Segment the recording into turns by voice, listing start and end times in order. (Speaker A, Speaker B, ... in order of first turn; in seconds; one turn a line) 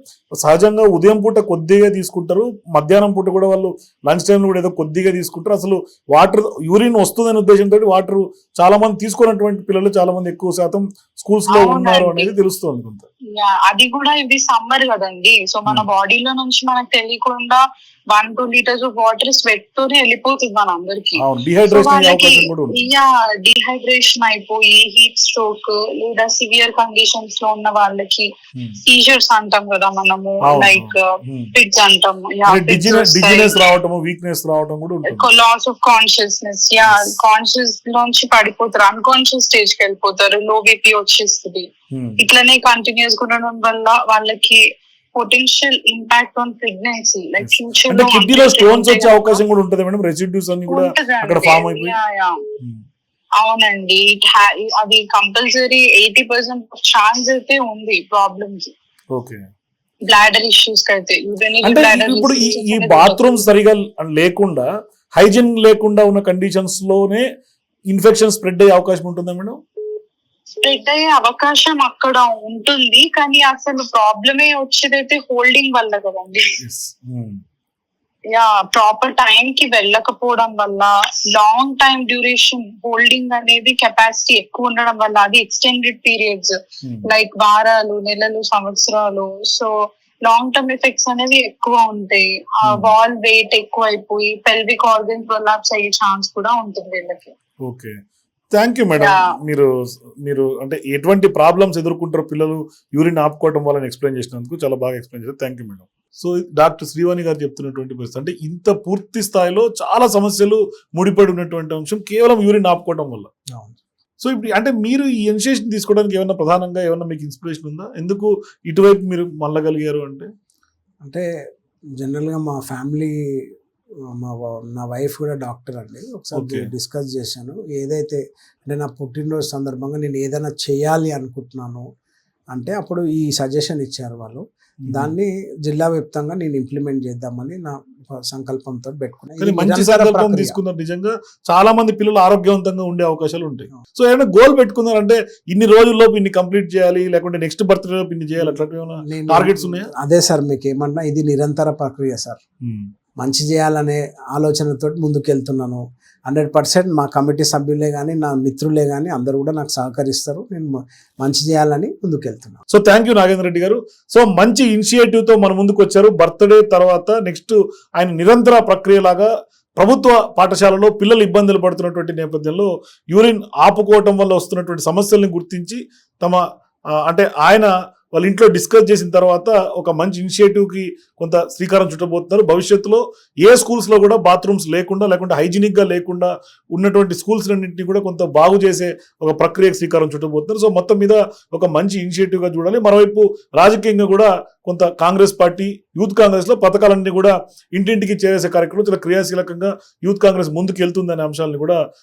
Speaker A: 0.4-13.1
Speaker B: 11.5-12.3
Speaker B: 13.3-28.3
Speaker A: 21.2-22.9
Speaker B: 28.8-33.6
Speaker A: 30.4-31.5
Speaker A: 32.5-35.3
Speaker B: 35.1-44.6
Speaker A: 36.8-37.1
Speaker A: 41.9-42.2
Speaker B: 45.1-49.4
Speaker A: 47.4-51.9
Speaker B: 50.7-52.4
Speaker B: 53.4-58.7
Speaker A: 59.1-59.4
Speaker B: 60.1-63.2
Speaker A: 61.6-67.2
Speaker A: 67.9-69.6
Speaker B: 70.6-76.6
Speaker A: 76.6-77.4
Speaker B: 78.3-86.5
Speaker B: 87.0-89.7
Speaker B: 90.2-97.3
Speaker A: 92.6-92.9
Speaker A: 97.6-97.9
Speaker A: 98.5-99.7
Speaker B: 99.0-99.3
Speaker A: 100.2-113.3
Speaker C: 113.5-113.8
Speaker A: 114.2-120.3
Speaker C: 121.0-121.3
Speaker C: 122.0-123.5
Speaker C: 124.0-131.9
Speaker A: 126.3-126.7
Speaker C: 132.5-140.5
Speaker A: 134.8-135.1
Speaker A: 139.4-149.9
Speaker C: 148.4-152.4
Speaker A: 152.6-152.9
Speaker C: 153.2-162.6
Speaker A: 162.7-176.4
Speaker A: 177.0-201.8